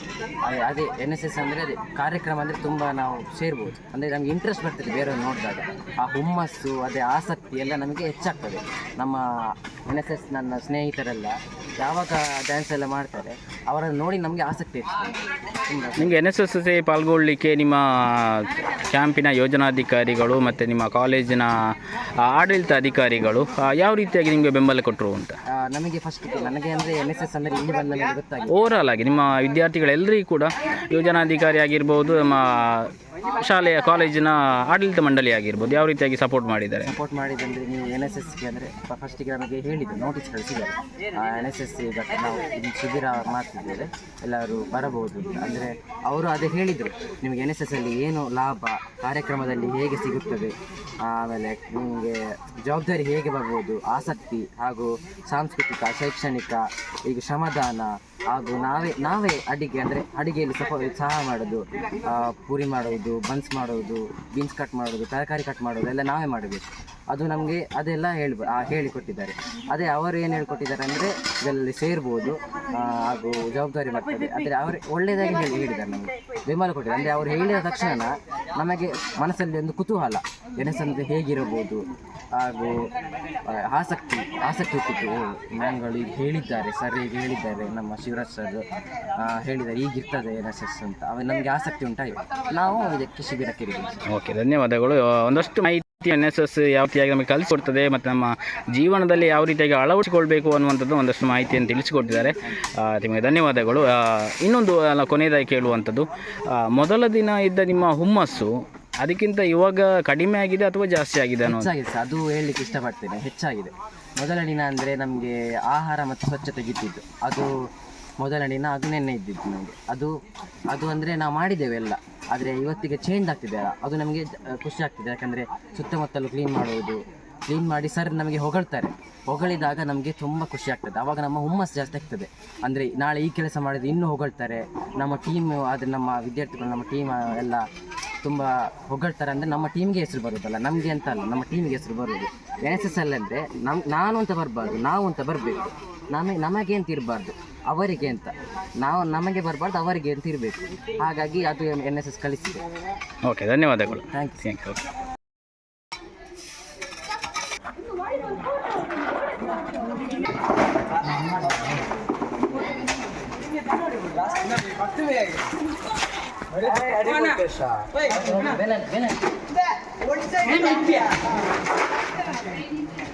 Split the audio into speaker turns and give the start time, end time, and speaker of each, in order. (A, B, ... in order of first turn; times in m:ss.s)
0:00.4-0:09.2 A
0:09.9-0:16.2 A
0:16.0-0:21.7 B
0:22.3-0:25.4 B
0:25.5-0:28.6 A
0:28.5-0:36.9 B
0:36.8-1:21.8 A
1:22.4-1:22.8 A
1:23.5-1:28.6 A
1:29.2-1:34.0 A
1:34.1-1:51.7 B
1:51.4-1:57.5 A
1:58.2-2:00.1 A
2:00.7-2:17.6 A
2:18.2-2:32.6 A
2:33.3-2:34.8 B
2:34.0-2:34.4 A
2:46.6-2:49.3 A
2:50.5-2:50.9 A